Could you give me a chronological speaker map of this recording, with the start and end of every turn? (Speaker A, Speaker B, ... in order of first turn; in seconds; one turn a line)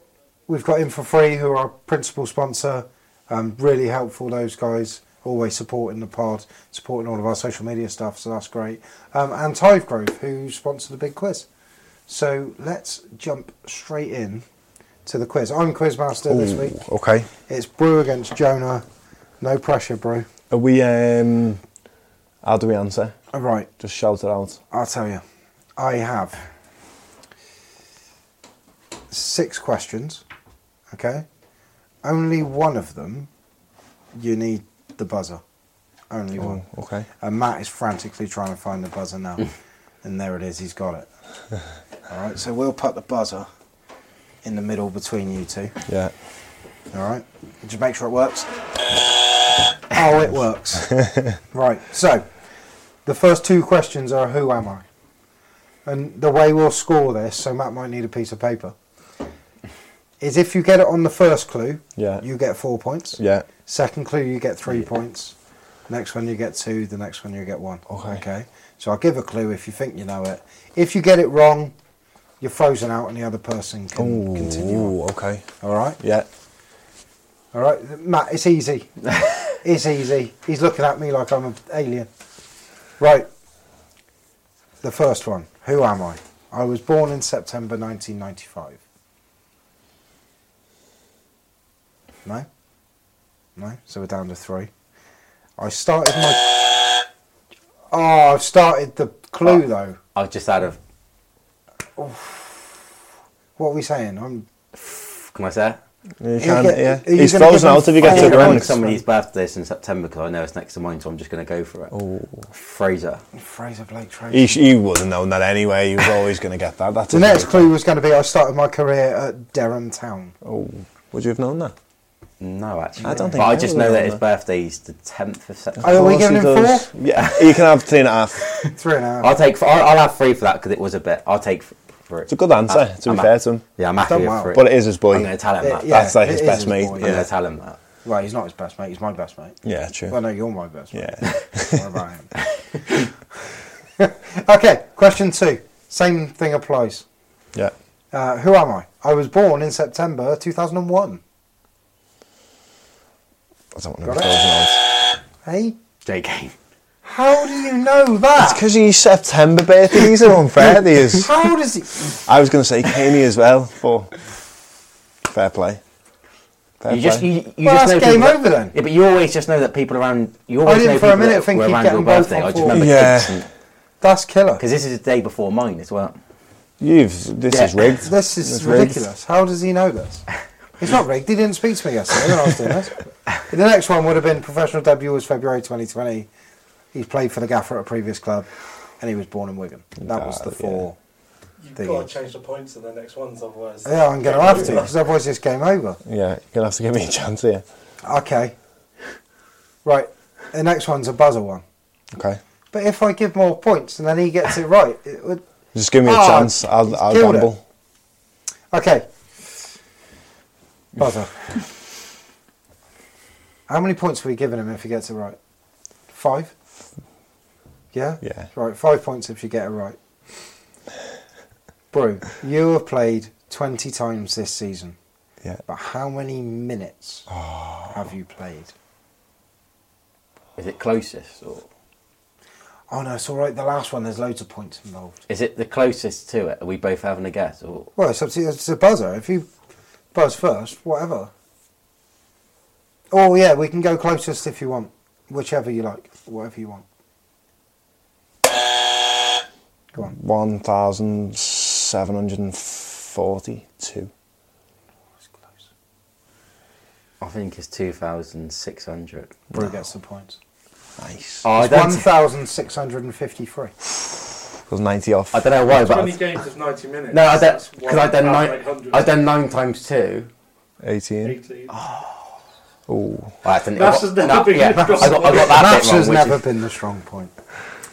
Speaker A: 0.5-11.5
Speaker A: 12.1-14.5
Speaker A: 15.1-16.9
Speaker B: 16.3-17.3
Speaker A: 17.4-18.9
Speaker A: 19.4-20.3
Speaker B: 20.5-21.6
Speaker B: 22.4-24.6
Speaker A: 23.3-23.7
Speaker A: 24.7-25.2
Speaker A: 25.8-26.5
Speaker A: 29.1-30.2
Speaker A: 30.9-31.3
Speaker A: 32.0-33.3
Speaker A: 34.1-35.4
Speaker A: 36.1-41.1
Speaker B: 36.4-37.1
Speaker A: 42.1-43.5
Speaker A: 44.4-45.8
Speaker B: 45.9-46.1
Speaker A: 46.9-49.0
Speaker A: 49.9-54.9
Speaker B: 50.9-51.4
Speaker A: 55.9-58.8
Speaker A: 60.2-71.8
Speaker B: 62.0-62.2
Speaker B: 63.2-63.5
Speaker B: 67.9-68.2
Speaker A: 72.4-74.9
Speaker B: 74.0-76.3
Speaker A: 75.6-76.0
Speaker A: 77.5-82.1
Speaker A: 83.0-83.3
Speaker A: 84.8-88.8
Speaker A: 93.6-94.7
Speaker A: 95.6-97.0
Speaker A: 97.9-100.0
Speaker C: 100.2-100.8
Speaker A: 102.0-102.8
Speaker A: 103.6-104.5
Speaker C: 104.7-105.8
Speaker B: 106.2-108.8
Speaker A: 106.4-109.0
Speaker C: 108.0-112.0
Speaker B: 111.9-112.5
Speaker C: 112.5-113.2
Speaker A: 113.3-114.6
Speaker B: 114.3-117.7
Speaker A: 117.1-120.3
Speaker B: 120.4-121.8
Speaker C: 122.4-126.1
Speaker B: 123.0-124.2
Speaker A: 123.0-123.6
Speaker A: 125.8-126.9
Speaker B: 125.8-128.4
Speaker C: 127.0-127.8
Speaker C: 128.6-136.0
Speaker A: 128.7-129.4
Speaker B: 132.3-133.7
Speaker A: 134.0-134.6
Speaker B: 134.5-137.3
Speaker A: 135.6-137.2
Speaker C: 137.0-137.8
Speaker A: 138.0-142.9
Speaker B: 139.6-140.2
Speaker B: 140.9-141.9
Speaker A: 144.0-147.1
Speaker A: 148.1-151.2
Speaker B: 153.7-155.2
Speaker A: 154.0-154.5
Speaker A: 155.4-155.8
Speaker C: 156.0-156.5
Speaker A: 157.1-158.6
Speaker B: 158.4-161.3
Speaker A: 161.1-162.3
Speaker B: 162.2-164.3
Speaker B: 165.2-165.8
Speaker B: 166.8-167.3
Speaker C: 166.9-173.5
Speaker A: 167.6-168.8
Speaker A: 170.6-173.0
Speaker B: 172.7-173.4
Speaker A: 174.0-174.6
Speaker C: 174.6-176.2
Speaker B: 176.8-179.1
Speaker C: 177.5-178.0
Speaker A: 178.0-186.3
Speaker A: 186.9-191.0
Speaker B: 190.0-190.9
Speaker D: 191.6-194.9
Speaker A: 191.8-192.2
Speaker A: 193.8-196.0
Speaker B: 194.5-194.9
Speaker B: 196.1-197.6
Speaker A: 198.0-198.6
Speaker A: 199.8-201.6
Speaker B: 202.1-202.4
Speaker A: 202.7-205.4
Speaker B: 205.7-207.6
Speaker A: 206.0-207.5
Speaker A: 208.7-209.3
Speaker A: 211.0-211.9
Speaker A: 213.7-215.4
Speaker A: 216.1-216.5
Speaker A: 217.9-220.5
Speaker B: 218.2-218.5
Speaker A: 221.9-225.0
Speaker A: 225.7-227.3
Speaker B: 227.3-228.1
Speaker A: 227.9-228.7
Speaker C: 230.6-231.7
Speaker A: 232.9-235.2
Speaker C: 235.3-237.9
Speaker A: 238.0-239.5
Speaker A: 240.1-241.3
Speaker A: 243.1-246.8
Speaker B: 250.0-254.1
Speaker A: 255.4-255.6
Speaker C: 257.2-259.4
Speaker A: 259.5-260.4
Speaker B: 261.0-261.8
Speaker C: 261.4-262.0
Speaker A: 261.6-263.8
Speaker B: 264.7-266.0
Speaker C: 265.3-266.2
Speaker D: 265.7-269.1
Speaker C: 267.1-270.3
Speaker B: 270.8-271.4
Speaker D: 271.2-271.7
Speaker C: 271.7-272.1
Speaker B: 272.9-273.4
Speaker C: 273.4-276.4
Speaker D: 273.8-275.7
Speaker A: 275.0-277.4